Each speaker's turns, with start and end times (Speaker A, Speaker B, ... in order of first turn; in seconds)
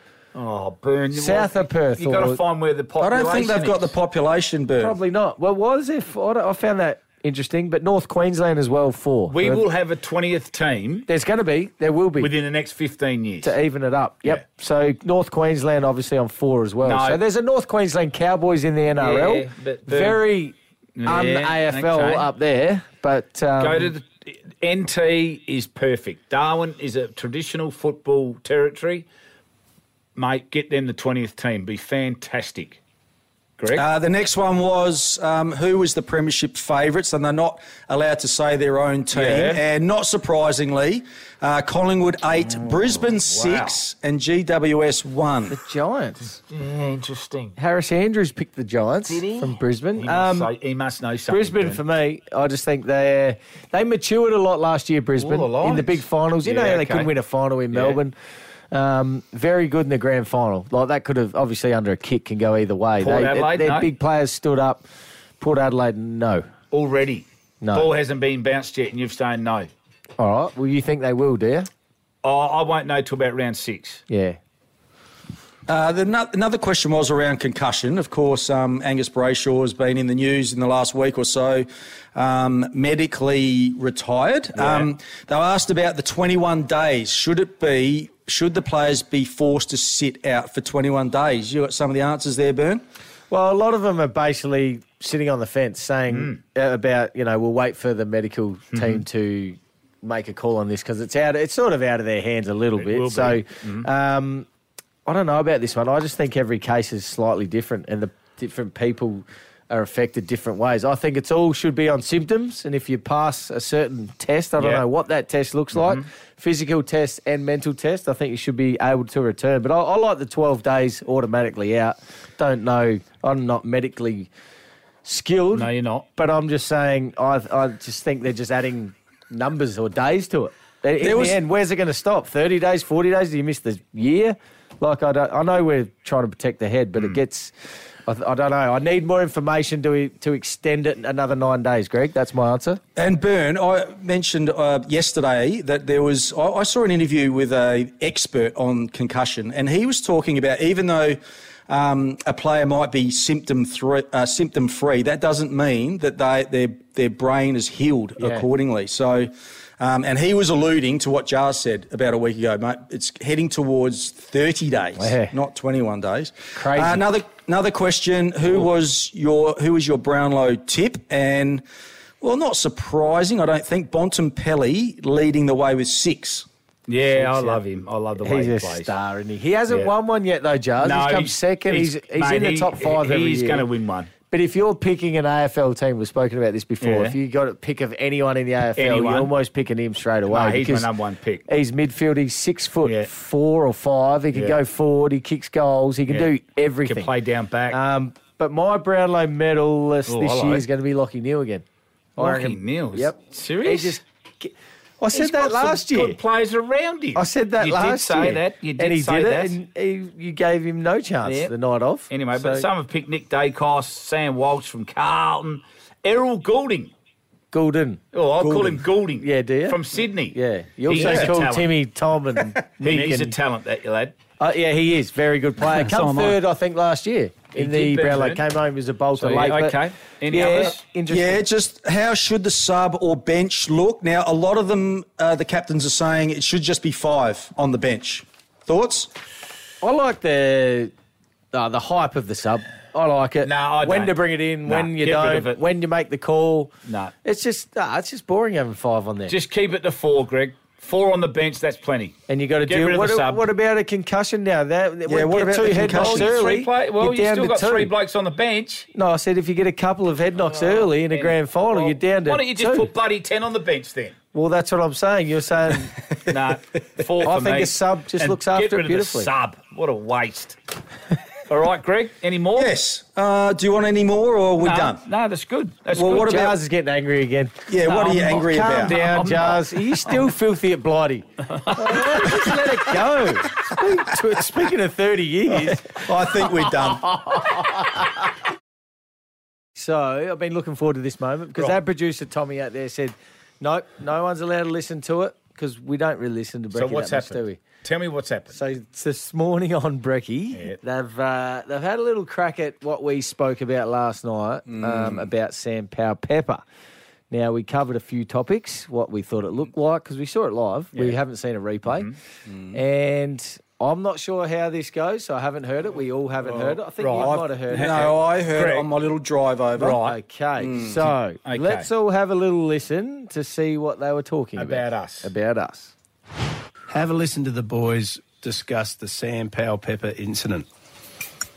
Speaker A: 0.3-3.9, 9.3-11.1, 12.2-13.5, 16.8-17.2, 18.9-20.2, 21.0-22.3, 23.6-29.1, 30.1-32.8, 33.6-33.8, 39.1-39.6, 42.6-43.8, 46.4-47.5, 49.1-51.8, 55.2-57.1, 57.7-58.0, 63.0-63.9, 66.7-69.7, 72.2-74.0, 96.1-96.4, 98.7-99.0, 102.7-103.8, 114.6-114.8, 115.7-116.0, 125.5-126.0, 176.9-178.9, 180.8-184.1, 186.8-187.2, 188.8-189.3, 190.3-191.4, 194.3-194.6, 196.8-197.8, 200.1-200.7, 202.2-204.0, 205.1-209.6, 211.2-211.5, 212.1-216.9, 218.1-221.7, 222.8-224.1, 225.7-226.4, 227.5-228.4, 229.2-230.8, 243.4-245.6, 246.8-247.1, 249.3-253.4, 255.7-258.9, 260.4-264.1, 266.3-270.6, 271.5-272.7, 274.6-276.6, 278.1-279.7, 281.6-282.4, 296.7-298.6, 311.9-312.1, 316.4-318.9, 319.8-320.2, 321.4-321.9, 324.6-325.3
Speaker B: 1.1-2.4, 4.8-9.6, 11.1-12.3, 13.4-23.9, 45.5-46.3, 47.5-50.5, 51.3-58.1, 58.7-64.8, 65.4-66.5, 67.6-67.9, 70.2-71.7, 74.1-74.4, 84.6-84.8, 93.3-104.5, 105.0-124.3, 125.0-137.5, 138.1-142.8, 158.2-158.4, 165.0-165.3, 166.5-167.1, 177.1-177.6, 178.2-183.7, 184.3-190.9, 191.5-197.1, 197.7-201.6, 202.2-206.2, 207.1-212.7, 217.5-218.0, 219.2-219.8, 220.3-223.3, 224.4-231.4, 239.8-240.9, 241.5-246.7, 247.2-249.3, 252.3-257.9, 258.9-262.9, 264.3-265.9, 267.2-269.3, 276.0-286.1, 287.2-287.6, 289.8-297.6, 298.5-306.6, 307.3-312.1, 312.7-318.1, 319.8-325.9
Speaker C: 3.0-5.0, 33.7-45.6, 75.7-92.8, 131.0-131.4, 142.9-171.6, 172.2-176.4, 218.4-218.8, 220.9-221.3, 231.1-239.1, 255.1-256.4, 272.6-275.0, 275.9-276.5, 277.7-279.0, 285.9-287.1, 304.7-305.3, 312.5-312.8, 317.2-320.0, 320.6-321.1
Speaker D: 326.9-330.6